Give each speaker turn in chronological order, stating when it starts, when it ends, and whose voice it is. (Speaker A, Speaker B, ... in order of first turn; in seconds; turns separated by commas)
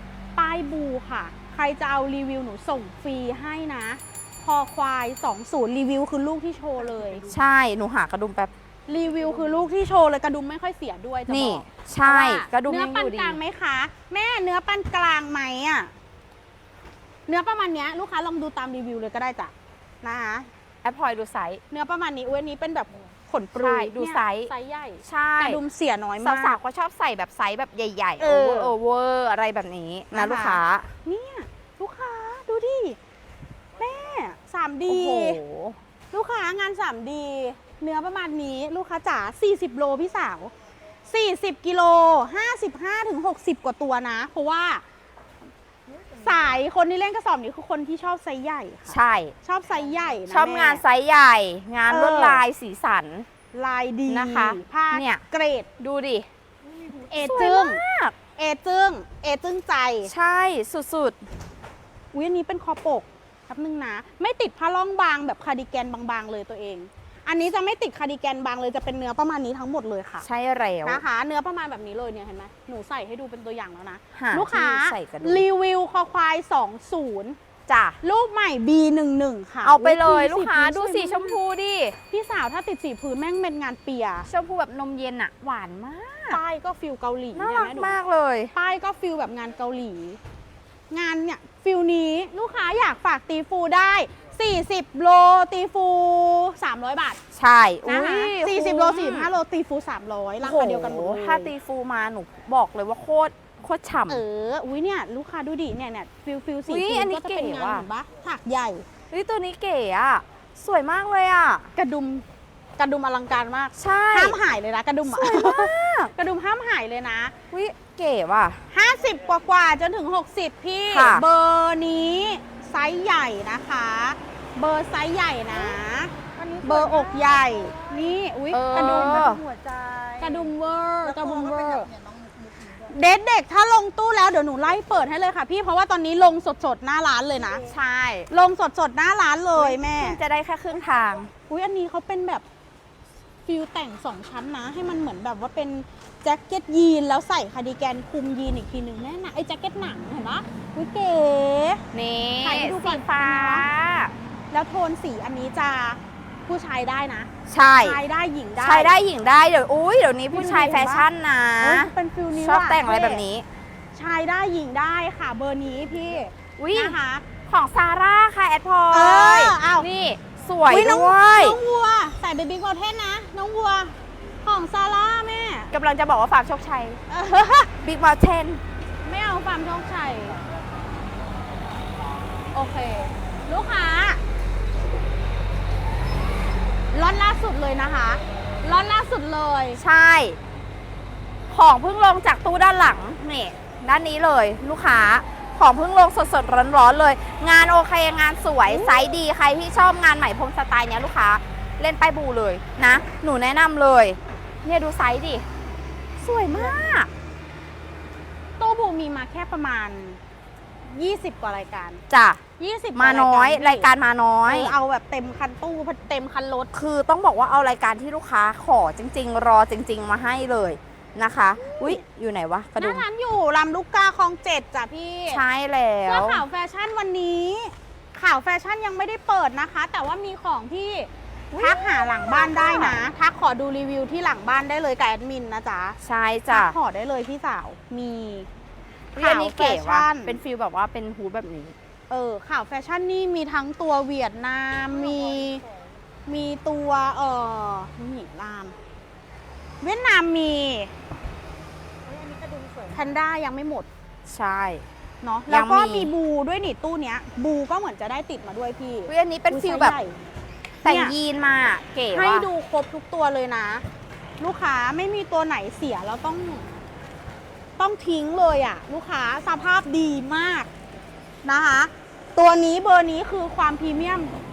Speaker A: 0.3-7.3, Speaker B: 7.3-8.5, Speaker A: 8.9-15.9, Speaker B: 11.3-13.4, Speaker A: 17.3-20.5, Speaker B: 20.8-21.6, Speaker A: 21.7-26.6, Speaker B: 23.6-24.5, Speaker B: 25.0-25.6, Speaker B: 26.2-30.9, Speaker A: 28.2-28.7, Speaker A: 30.1-33.0, Speaker A: 33.8-35.4, Speaker B: 34.9-35.8, Speaker A: 36.1-40.5, Speaker A: 41.0-44.8, Speaker A: 46.2-50.8, Speaker B: 48.9-49.3, Speaker B: 50.3-53.3, Speaker A: 51.9-52.4, Speaker A: 53.5-55.7, Speaker B: 54.1-55.2, Speaker B: 55.8-56.3, Speaker A: 57.0-57.8, Speaker B: 57.2-58.1, Speaker A: 58.4-60.1, Speaker B: 60.1-61.2, Speaker A: 62.1-70.2, Speaker B: 70.2-71.0, Speaker A: 70.8-77.4, Speaker B: 74.1-75.4, Speaker B: 77.7-78.0, Speaker A: 78.0-81.4, Speaker B: 79.6-82.0, Speaker A: 82.1-84.3, Speaker B: 84.2-86.4, Speaker A: 86.3-87.9, Speaker B: 87.3-88.5, Speaker A: 88.5-90.2, Speaker A: 90.9-97.2, Speaker B: 97.3-99.3, Speaker A: 97.8-101.5, Speaker B: 100.4-104.2, Speaker A: 104.1-108.8, Speaker B: 106.7-107.9, Speaker B: 109.1-111.7, Speaker A: 111.7-112.2, Speaker A: 112.8-117.3, Speaker B: 113.7-114.4, Speaker B: 115.0-116.1, Speaker B: 117.5-118.6, Speaker A: 118.7-129.4, Speaker B: 120.9-121.2, Speaker B: 128.5-129.4, Speaker C: 129.5-130.1, Speaker A: 130.2-131.9, Speaker C: 131.5-132.6, Speaker A: 132.8-137.6, Speaker B: 137.6-138.3, Speaker A: 138.3-140.2, Speaker B: 139.6-141.3, Speaker A: 141.5-142.4, Speaker A: 143.4-151.8, Speaker B: 151.9-154.1, Speaker A: 152.4-153.7, Speaker A: 154.5-157.3, Speaker B: 157.5-158.0, Speaker A: 157.8-158.9, Speaker B: 158.6-163.5, Speaker A: 160.3-161.1, Speaker A: 161.6-163.2, Speaker A: 163.9-167.3, Speaker B: 166.6-171.6, Speaker A: 168.9-169.9, Speaker A: 170.7-175.7, Speaker B: 175.7-177.0, Speaker A: 177.1-177.7, Speaker B: 177.8-178.6, Speaker A: 179.0-180.4, Speaker A: 182.5-184.2, Speaker A: 186.9-189.8, Speaker B: 189.8-190.4, Speaker B: 191.5-205.4, Speaker A: 198.7-199.1, Speaker B: 206.2-207.1, Speaker A: 206.5-206.8, Speaker A: 208.6-210.2, Speaker A: 210.8-212.0, Speaker B: 212.1-212.4, Speaker A: 212.6-213.9, Speaker B: 212.9-214.7, Speaker A: 214.5-216.7, Speaker B: 216.7-223.0, Speaker A: 221.6-222.0, Speaker A: 222.8-225.4, Speaker B: 225.3-226.4, Speaker A: 226.0-236.0, Speaker B: 231.5-233.0, Speaker B: 236.0-236.8, Speaker A: 236.5-238.5, Speaker B: 239.1-241.7, Speaker A: 239.2-240.4, Speaker A: 242.1-245.6, Speaker A: 246.2-248.7, Speaker A: 249.8-250.9, Speaker C: 252.2-252.8, Speaker A: 252.9-253.9, Speaker B: 254.2-254.8, Speaker A: 255.2-260.2, Speaker B: 255.5-256.1, Speaker B: 259.1-260.0, Speaker A: 260.8-261.1, Speaker B: 260.8-262.5, Speaker A: 262.1-263.8, Speaker A: 264.4-266.7, Speaker A: 267.8-270.7, Speaker A: 271.4-274.3